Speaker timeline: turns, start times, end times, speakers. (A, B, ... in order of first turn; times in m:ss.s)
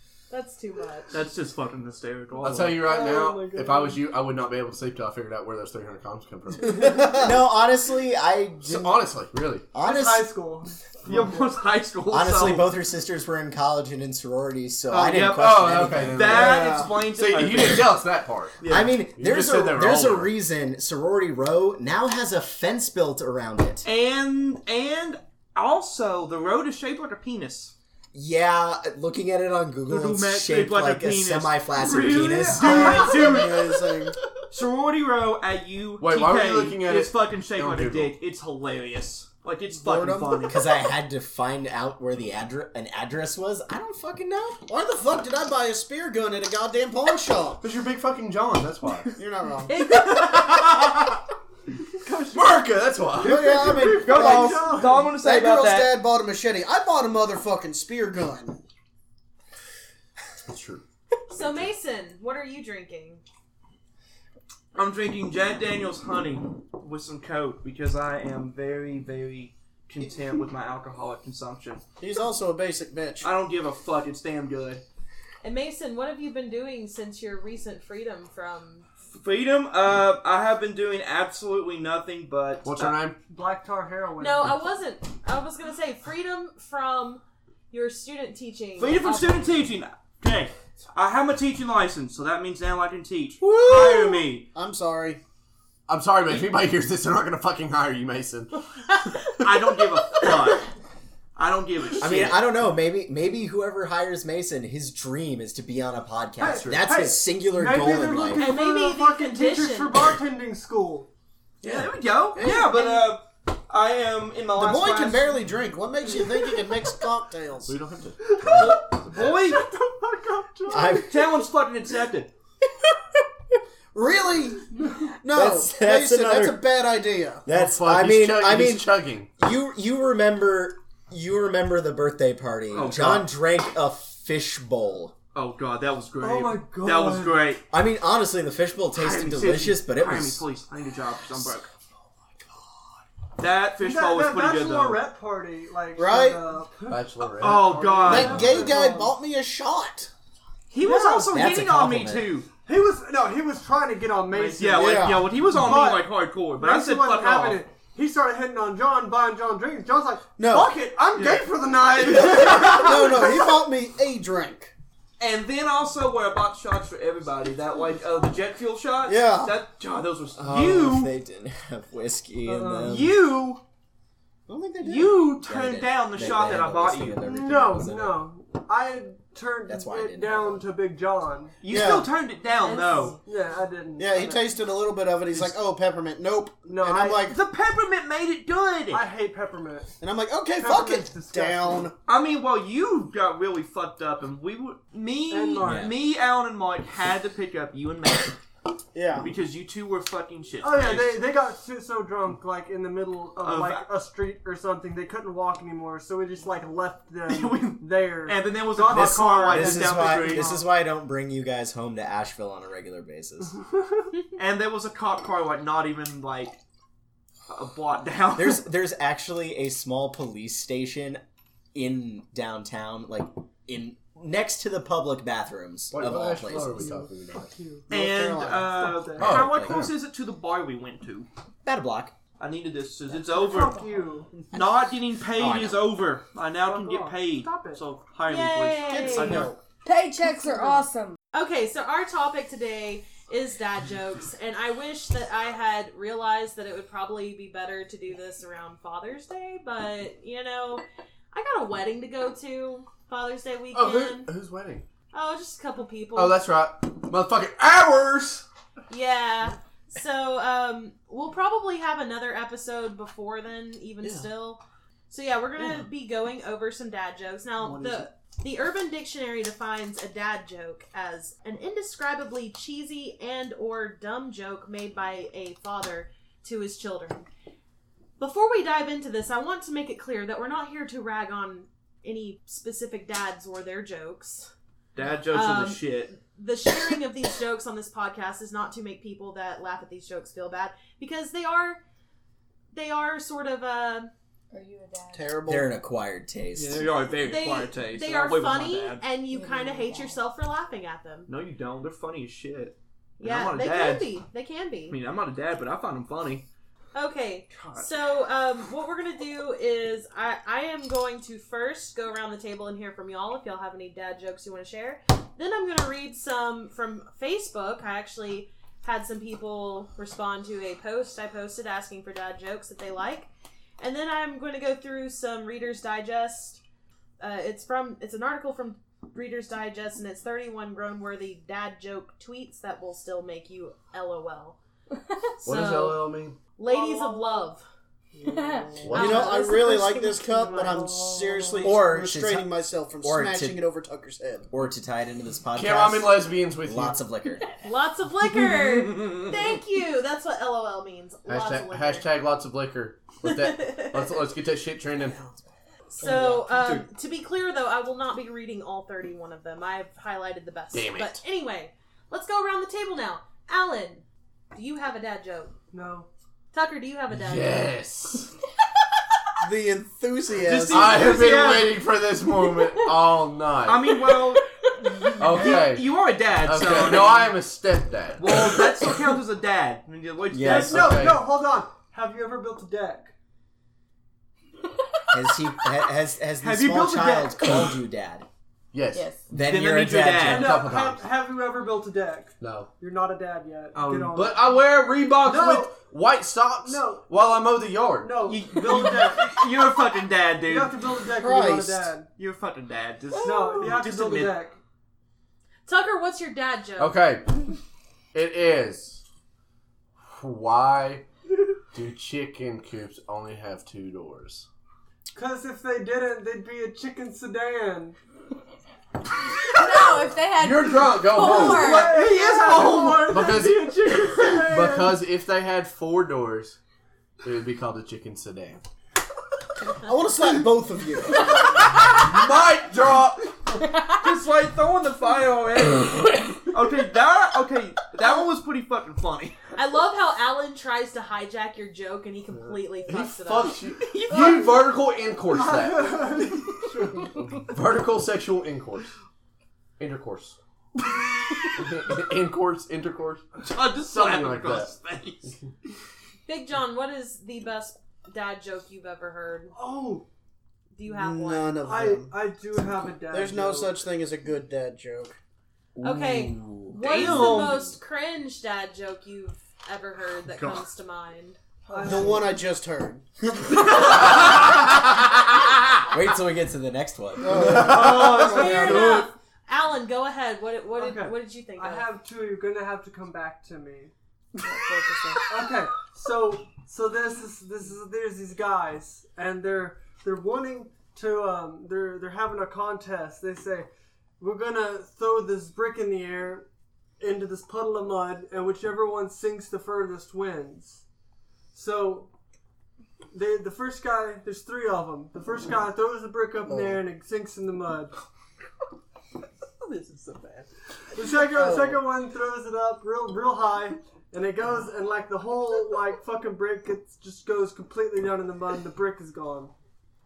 0:00.3-0:01.2 A
0:01.1-0:02.8 B
0:02.4-0:07.2 C
0:02.8-0:04.0 D
0:06.8-0:07.3 E
0:07.1-0:09.0 F
0:08.6-0:09.7 C
0:09.7-0:10.3 F
0:09.8-0:11.3 D
0:11.1-0:12.7 B
0:12.1-0:16.6 F
0:14.9-0:18.0 B
0:15.4-0:18.6 C
0:16.2-0:17.0 E
0:18.6-0:19.0 B
0:18.7-0:23.8 F
0:19.2-0:20.3 C
0:23.8-0:27.7 B
0:28.1-0:32.8 F
0:29.9-0:33.8 B
0:32.4-0:33.4 D
0:32.6-0:34.2 E
0:34.5-0:40.6 B
0:36.0-0:38.1 C
0:39.8-0:40.6 E
0:40.5-0:44.6 F
0:44.7-0:47.6 E
0:47.6-0:49.2 C
0:49.2-0:49.8 E
0:49.7-0:50.5 B
0:49.8-0:50.0 A
0:50.2-0:51.2 C
0:52.0-0:52.4 B
0:52.3-0:53.9 C
0:53.2-0:58.6 E
0:53.4-0:55.9 B
0:53.8-0:55.1 D
1:00.5-1:00.8 C
1:01.3-1:03.2 A
1:04.8-1:11.8 B
1:12.0-1:13.3 E
1:13.2-1:14.8 B
1:15.4-1:18.9 A
1:19.1-1:23.0 B
1:22.6-1:23.2 C
1:23.3-1:24.6 D
1:24.2-1:29.6 A
1:28.8-1:34.5 B
1:33.4-1:35.2 E
1:35.9-1:38.6 C
1:39.1-1:39.5 C
1:39.4-1:40.7 B
1:41.4-1:42.4 B
1:42.0-1:48.5 F
1:46.4-1:51.1 D
1:48.4-1:50.1 A
1:51.6-1:55.4 B
1:52.4-1:52.9 E
1:54.6-1:57.7 E
1:57.7-1:58.8 C
1:58.2-2:01.1 D
1:58.5-1:59.6 B
2:00.7-2:01.2 F
2:01.1-2:02.3 B
2:03.9-2:04.7 E
2:05.2-2:07.5 E
2:05.3-2:06.7 F
2:07.5-2:15.2 F
2:07.5-2:09.3 C
2:12.7-2:13.3 B
2:15.3-2:17.6 B
2:16.2-2:17.5 D
2:17.7-2:20.4 F
2:19.0-2:21.7 B
2:23.4-2:25.0 B
2:23.8-2:29.2 D
2:26.0-2:26.5 E
2:26.9-2:28.7 C
2:27.4-2:28.7 B
2:28.0-2:30.1 E
2:30.7-2:32.5 B
2:30.8-2:31.4 D
2:31.3-2:32.3 F
2:32.6-2:43.4 D
2:34.3-2:37.6 B
2:34.8-2:35.3 E
2:40.4-2:40.8 E
2:40.5-2:43.3 B
2:42.1-2:44.7 E
2:45.2-2:51.1 B
2:49.0-2:49.5 E
2:50.4-2:53.2 F
2:52.5-2:53.0 D
2:52.8-2:53.6 B
2:54.5-2:55.3 E
2:54.8-2:57.2 B
2:55.4-2:58.3 F
2:57.2-3:01.6 D
2:59.7-3:00.7 F
3:01.6-3:03.2 B
3:01.7-3:02.1 E
3:02.6-3:03.2 G
3:03.2-3:04.6 D
3:04.0-3:07.4 E
3:06.7-3:07.3 D
3:07.3-3:09.1 B
3:08.9-3:09.9 D
3:10.0-3:11.9 E
3:10.5-3:11.9 D
3:12.0-3:18.4 B
3:15.3-3:16.0 D
3:15.6-3:15.9 F
3:18.9-3:19.3 E
3:19.2-3:21.2 B
3:20.6-3:30.7 D
3:23.4-3:23.9 B
3:27.3-3:30.6 B
3:28.9-3:33.6 F
3:34.4-3:36.6 B
3:37.5-3:38.6 B
3:38.4-3:41.2 F
3:41.7-3:46.9 F
3:45.9-3:47.5 C
3:46.6-3:49.4 D
3:47.9-3:48.7 E
3:47.9-3:51.3 B
3:49.2-3:49.9 C
3:49.3-3:49.8 F
3:51.6-3:52.2 F
3:52.4-3:53.8 B
3:53.2-3:54.3 D
3:54.5-3:59.5 B
3:55.4-3:55.8 F
3:56.6-3:57.8 D
3:58.3-3:59.5 A
3:58.8-3:59.6 E
3:59.8-4:01.2 G
4:01.3-4:14.3 A
4:13.7-4:14.8 C
4:15.1-4:16.4 A
4:16.2-4:18.4 C
4:18.9-4:37.3 A
4:38.2-4:44.5 A
4:45.0-4:46.1 B
4:45.3-4:51.8 A
4:52.7-4:54.1 A
4:54.5-4:55.3 G
4:55.1-4:55.7 E
4:55.5-4:56.9 F
4:56.6-4:59.0 B
4:57.2-5:01.3 A
4:59.3-5:00.2 G
5:01.3-5:04.2 B
5:03.2-5:05.0 A
5:04.9-5:06.5 B
5:06.9-5:23.3 A
5:07.5-5:07.9 B
5:23.8-5:26.6 A
5:27.2-5:34.6 A
5:35.4-5:36.4 C
5:35.4-5:37.6 A
5:36.7-5:37.4 D
5:38.2-5:39.0 D
5:38.3-5:40.9 G
5:38.9-5:39.2 C
5:38.9-5:39.8 A
5:38.9-5:44.5 E
5:40.3-5:41.7 D
5:41.6-5:43.6 F
5:44.5-5:47.4 F
5:45.6-5:47.0 C
5:47.6-5:52.1 A
5:51.3-5:55.3 C
5:53.2-5:54.2 A
5:55.9-6:05.5 A
5:56.0-5:56.8 B
6:00.7-6:01.2 C
6:05.7-6:06.1 D
6:06.5-6:07.8 A
6:07.1-6:08.3 C
6:09.4-6:11.3 E
6:10.4-6:11.8 B
6:10.7-6:13.8 C
6:13.6-6:17.3 B
6:15.2-6:18.6 C
6:18.2-6:21.1 B
6:20.3-6:20.9 F
6:20.4-6:23.1 D
6:20.7-6:21.3 C
6:25.1-6:28.3 F
6:26.4-6:27.6 B
6:28.7-6:29.1 C
6:28.9-6:29.3 G
6:29.3-6:30.5 F
6:29.4-6:30.6 B
6:30.2-6:34.6 D
6:30.4-6:31.0 C
6:32.4-6:32.7 C
6:33.8-6:34.3 B
6:34.1-6:38.3 C
6:35.2-6:35.8 D
6:36.6-6:39.4 D
6:38.2-6:40.8 B
6:40.4-6:42.1 D
6:41.0-6:41.9 E
6:42.2-6:44.5 B
6:43.2-6:44.6 D
6:45.7-6:47.0 A
6:46.8-6:47.5 C
6:48.1-6:49.0 C
6:50.0-6:51.1 C
6:51.7-6:54.5 C
6:55.1-6:58.0 D
6:59.5-7:02.0 G
7:00.4-7:01.8 C
7:01.2-7:05.0 D
7:01.4-7:03.4 B
7:03.1-7:06.6 C
7:07.2-7:08.6 C
7:09.8-7:11.1 E
7:09.8-7:11.2 F
7:11.2-7:19.4 B
7:19.6-7:23.6 A
7:22.8-7:26.2 C
7:23.8-7:24.4 B
7:25.3-7:27.1 D
7:27.1-7:28.9 C
7:29.8-7:30.4 C
7:31.5-7:33.2 C
7:33.4-7:35.3 B
7:33.8-7:34.7 C
7:36.3-7:39.5 A
7:39.5-7:40.1 D
7:40.7-7:41.6 A
7:40.9-7:42.2 E
7:41.6-7:43.8 D
7:43.1-7:45.2 E
7:45.8-7:47.6 F
7:45.8-7:51.4 A
7:46.8-7:47.8 B
7:51.7-7:52.4 D
7:51.8-7:53.0 E
7:54.0-7:54.4 B
7:55.9-7:58.3 F
7:57.2-7:58.1 E
7:57.5-7:59.0 B
7:58.1-7:59.0 D
7:58.2-8:01.9 A
8:00.8-8:03.9 D
8:04.4-8:05.2 G
8:05.3-8:13.7 D
8:14.2-8:16.5 D
8:17.0-8:20.8 D
8:21.5-8:22.1 D
8:23.1-8:27.9 D
8:26.4-8:26.8 E
8:29.6-8:30.5 B
8:31.0-8:39.5 D
8:31.3-8:31.8 E